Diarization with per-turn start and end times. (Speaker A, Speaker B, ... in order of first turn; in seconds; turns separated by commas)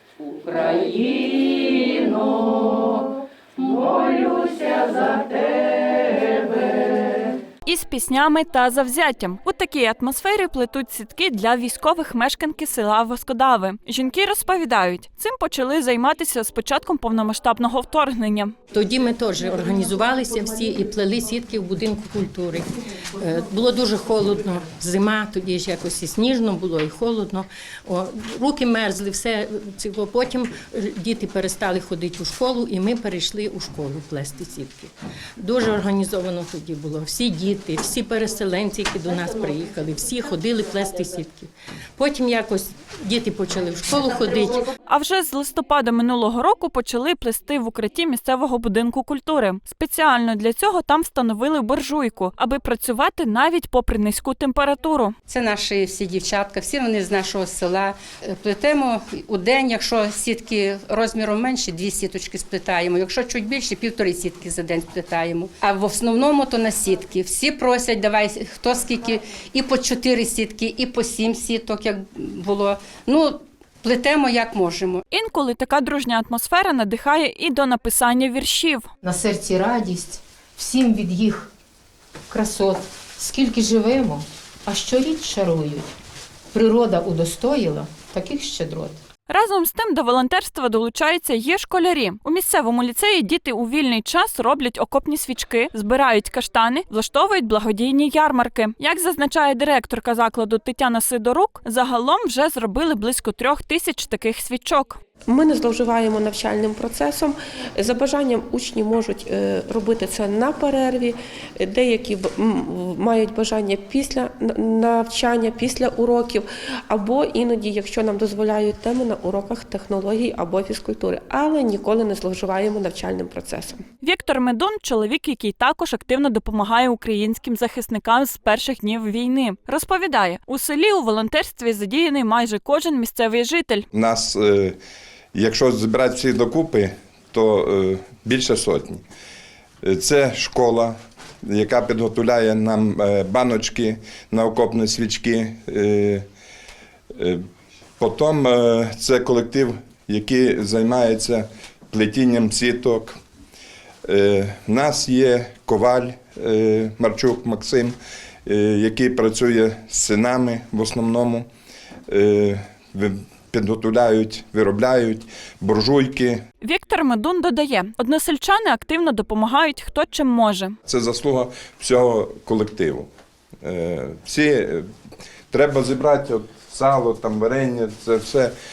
Speaker A: 0.3-2.9, Speaker A: 3.6-5.5, Speaker B: 7.6-18.5, Speaker C: 18.7-44.6, Speaker B: 44.9-55.1, Speaker A: 55.3-75.0, Speaker B: 75.1-78.9, Speaker D: 79.0-81.5, Speaker D: 82.3-85.9, Speaker D: 86.5-89.0, Speaker B: 89.3-105.0, Speaker E: 105.3-123.8, Speaker B: 124.0-133.8, Speaker F: 133.9-134.8, Speaker F: 135.3-139.0, Speaker F: 139.8-146.2, Speaker F: 147.2-147.4, Speaker F: 148.0-153.2, Speaker F: 154.0-157.9, Speaker F: 158.4-161.4, Speaker F: 162.1-166.4, Speaker B: 166.6-170.7, Speaker F: 170.8-173.1, Speaker F: 173.6-174.8, Speaker F: 175.5-178.5